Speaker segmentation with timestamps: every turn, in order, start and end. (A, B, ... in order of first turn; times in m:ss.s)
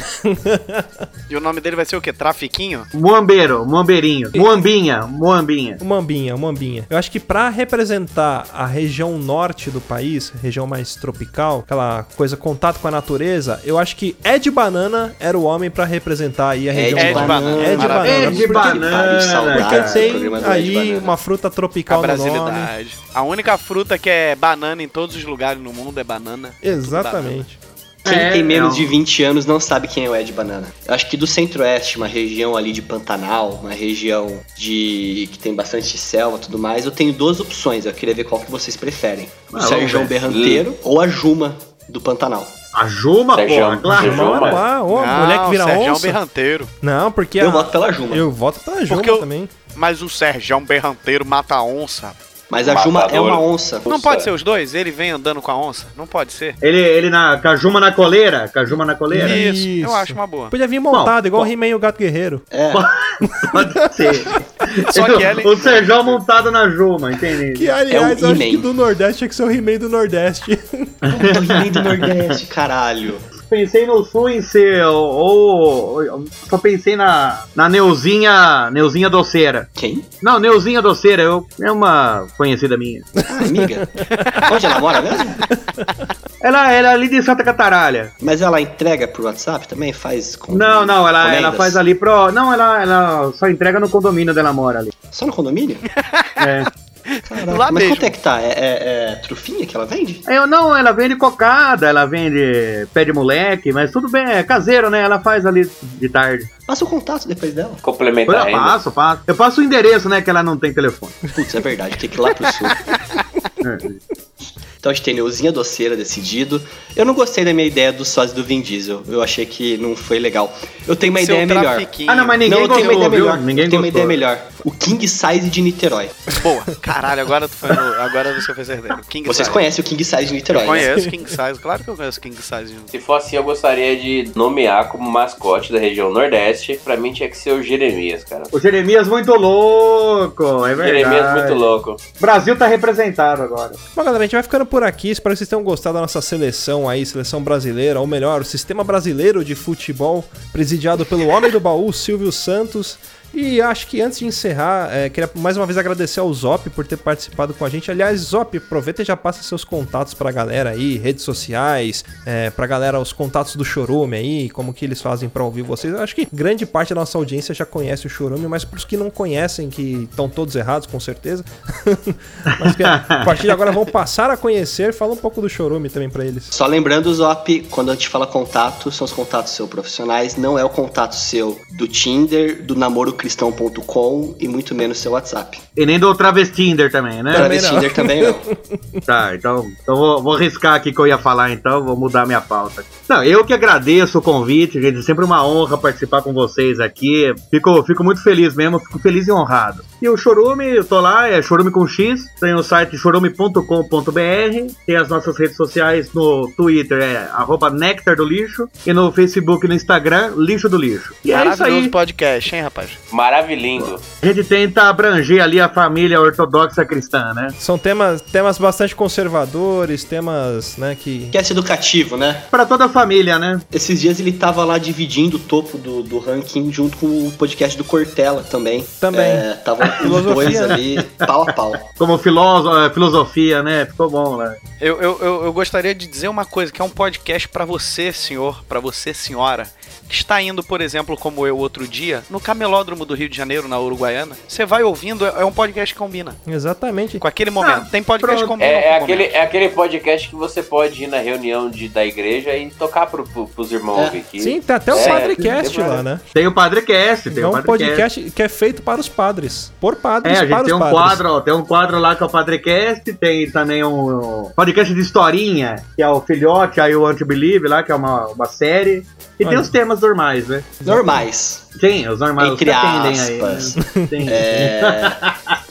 0:00.2-0:01.0 A
0:01.3-0:02.9 B
0:02.9-0:05.8 C
0:05.8-0:22.7 A
0:16.7-0:21.1 D
0:17.0-0:18.6 B
0:18.0-0:20.3 C
0:21.9-0:27.5 B
0:26.6-0:27.6 A
0:28.0-0:28.9 C
0:28.1-0:42.6 D
0:39.5-0:40.2 C
0:40.2-0:40.7 E
0:42.7-0:44.6 C
0:43.3-0:44.6 E
0:43.9-0:46.2 A
0:44.9-0:46.7 B
0:46.8-0:49.5 A
0:47.4-0:48.2 D
0:48.9-0:52.2 B
0:52.5-0:53.9 D
0:52.6-0:54.3 E
0:53.9-0:56.6 B
0:56.6-0:59.4 C
0:59.1-1:02.5 A
0:59.1-1:00.6 B
1:02.5-1:02.9 D
1:02.7-1:07.8 C
1:03.2-1:04.9 A
1:04.9-1:06.2 B
1:07.5-1:11.1 A
1:07.9-1:08.7 D
1:11.0-1:12.1 C
1:11.1-1:13.3 D
1:13.4-1:19.7 C
1:19.8-1:20.1 D
1:20.2-1:23.1 C
1:23.2-1:26.0 A
1:23.3-1:25.5 D
1:26.4-1:28.2 C
1:28.2-1:31.8 D
1:30.5-1:34.9 C
1:35.1-1:35.9 D
1:36.1-1:36.5 B
1:36.4-1:36.7 C
1:37.1-1:38.1 B
1:37.2-1:40.3 D
1:40.3-1:46.5 C
1:46.7-1:47.8 D
1:47.8-1:48.8 E
1:48.3-1:51.2 C
1:51.3-1:52.8 D
1:53.6-1:54.0 C
1:54.8-2:06.1 D
2:01.0-2:03.2 B
2:02.1-2:04.2 C
2:06.3-2:09.6 B
2:09.3-2:11.0 D
2:10.5-2:12.9 B
2:12.9-2:18.5 E
2:18.5-2:21.7 C
2:20.8-2:22.0 E
2:22.2-2:23.8 C
2:24.0-2:56.5 A
2:52.5-2:53.4 C
2:56.5-3:05.6 D
3:05.8-3:07.5 C
3:07.3-3:09.0 A
3:07.3-3:08.5 D
3:09.1-3:32.0 C
3:31.3-3:33.0 B
3:33.1-3:34.0 E
3:34.2-3:37.6 C
3:37.6-3:41.4 A
3:41.3-3:42.5 D
3:42.5-3:43.7 C
3:43.7-3:51.9 D
3:49.0-3:50.8 A
3:51.9-3:54.6 C
3:54.8-4:06.4 B
4:06.5-4:07.2 A
4:07.2-4:09.4 B
4:07.6-4:08.6 C
4:08.6-4:16.0 E
4:14.4-4:16.2 A
4:15.0-4:15.3 B
4:16.3-4:18.0 C
4:17.3-4:21.2 A
4:20.2-4:30.8 C
4:29.4-4:29.7 A
4:30.8-4:31.2 A
4:30.8-4:31.7 D
4:31.8-4:35.6 C
4:32.4-4:35.2 D
4:33.8-4:34.4 A